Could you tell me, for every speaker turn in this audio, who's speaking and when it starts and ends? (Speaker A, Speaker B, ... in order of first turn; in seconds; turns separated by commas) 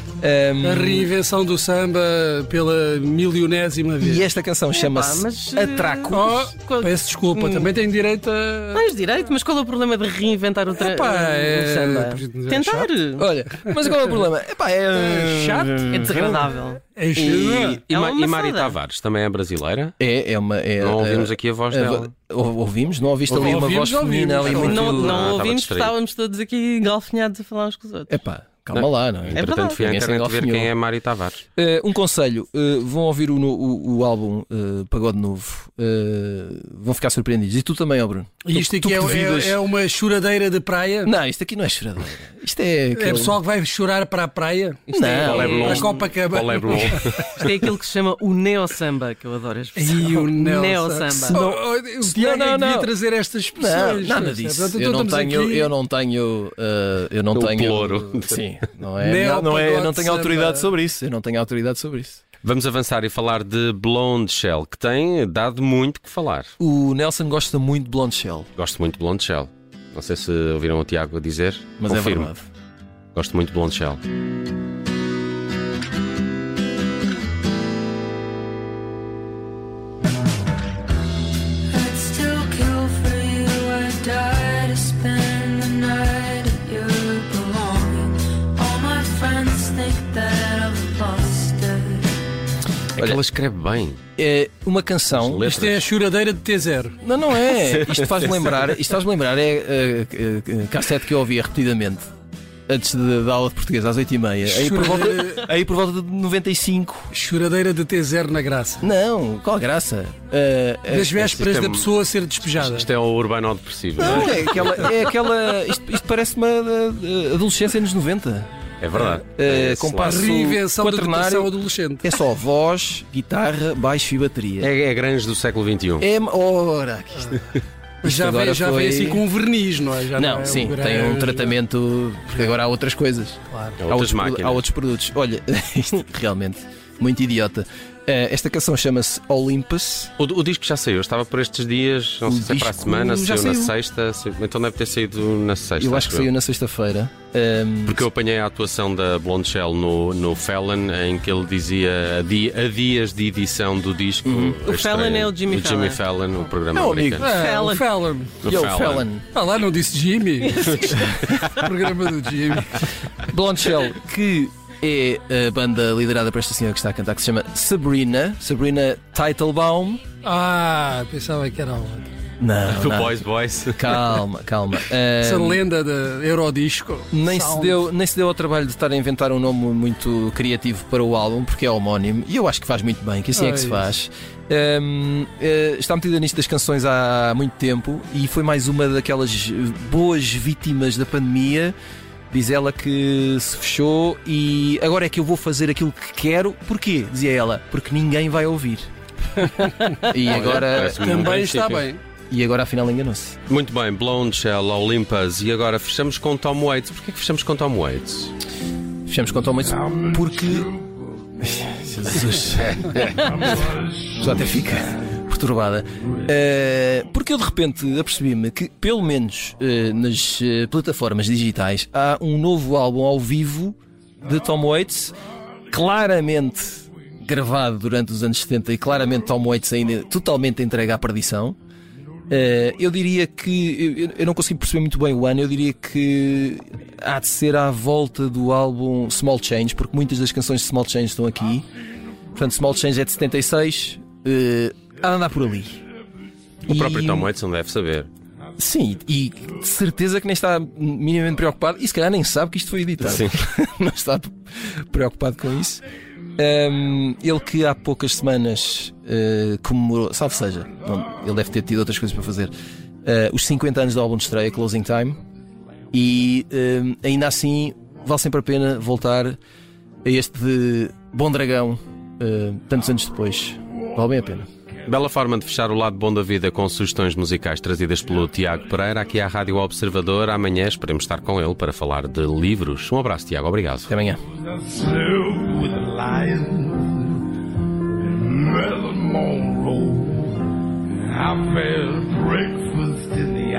Speaker A: 0.2-1.1, Speaker B: 0.6-4.3, Speaker A: 4.0-6.3, Speaker C: 4.7-7.7, Speaker B: 6.1-8.9, Speaker C: 8.7-13.3, Speaker B: 10.8-12.9, Speaker A: 13.2-16.4, Speaker B: 13.6-13.9, Speaker B: 14.9-17.8, Speaker C: 15.9-16.8, Speaker A: 17.1-17.8, Speaker D: 17.9-19.9, Speaker C: 17.9-18.8, Speaker A: 20.0-25.2, Speaker D: 20.8-22.1, Speaker B: 23.3-25.3, Speaker C: 24.4-28.1, Speaker D: 24.7-25.9, Speaker A: 28.1-30.7, Speaker D: 28.7-31.4, Speaker C: 29.3-29.8, Speaker A: 31.6-39.6, Speaker B: 38.4-41.1, Speaker A: 41.0-43.4, Speaker B: 42.9-47.1, Speaker A: 44.9-45.8, Speaker C: 44.9-46.1, Speaker D: 45.2-47.5, Speaker C: 47.4-51.4, Speaker B: 49.8-55.7, Speaker A: 51.3-52.9, Speaker A: 53.5-62.2, Speaker D: 57.3-58.5, Speaker B: 59.0-60.7, Speaker D: 62.4-66.5, Speaker A: 66.6-68.5, Speaker D: 68.6-72.3, Speaker A: 71.8-72.5, Speaker D: 73.1-74.0, Speaker E: 81.7-92.1, Speaker D: 93.0-94.0, Speaker A: 94.2-95.4, Speaker D: 95.1-95.9, Speaker B: 95.4-97.0, Speaker A: 97.0-102.1, Speaker D: 97.5-98.6, Speaker A: 102.7-107.1, Speaker B: 104.4-105.5, Speaker B: 107.1-108.8, Speaker A: 108.8-111.1, Speaker B: 110.9-112.9, Speaker D: 111.1-114.9, Speaker A: 114.0-121.5, Speaker B: 114.0-114.4, Speaker D: 118.8-120.3, Speaker B: 120.0-122.2, Speaker A: 122.0-124.7, Speaker D: 124.6-126.1, Speaker A: 126.0-127.3, Speaker B: 128.0-131.6, Speaker A: 128.0-129.2, Speaker A: 130.2-140.1, Speaker B: 133.5-133.8, Speaker D: 133.8-134.6, Speaker D: 140.2-146.3, Speaker A: 142.2-143.7, Speaker A: 145.8-148.0, Speaker D: 147.9-157.3, Speaker A: 154.3-154.6, Speaker C: 154.6-156.0, Speaker A: 156.7-157.3, Speaker B: 157.2-158.4, Speaker C: 157.2-157.9, Speaker D: 158.4-159.1, Speaker A: 158.5-159.3, Speaker B: 159.3-162.9, Speaker C: 160.6-161.0, Speaker D: 160.7-161.5, Speaker A: 163.3-170.0, Speaker B: 170.2-172.1, Speaker A: 172.4-173.2, Speaker D: 172.7-174.0, Speaker A: 173.7-175.6, Speaker B: 175.2-177.8, Speaker A: 177.1-191.8, Speaker B: 183.3-183.9, Speaker A: 192.3-198.9, Speaker B: 199.4-202.0, Speaker A: 200.0-201.2, Speaker D: 200.3-201.9, Speaker A: 202.3-203.4, Speaker D: 203.5-208.3, Speaker A: 209.1-210.8, Speaker A: 211.4-225.2, Speaker A: 225.7-231.6, Speaker A: 232.3-241.7, Speaker A: 242.3-245.8, Speaker A: 246.7-247.3, Speaker D: 246.7-248.1, Speaker A: 248.6-254.3, Speaker D: 253.0-253.3, Speaker A: 254.9-255.8, Speaker A: 256.4-262.5, Speaker A: 263.1-265.2, Speaker A: 265.9-269.4, Speaker A: 270.1-274.5, Speaker D: 274.9-283.9, Speaker A: 283.9-284.2, Speaker F: 285.3-286.9, Speaker F: 289.3-290.1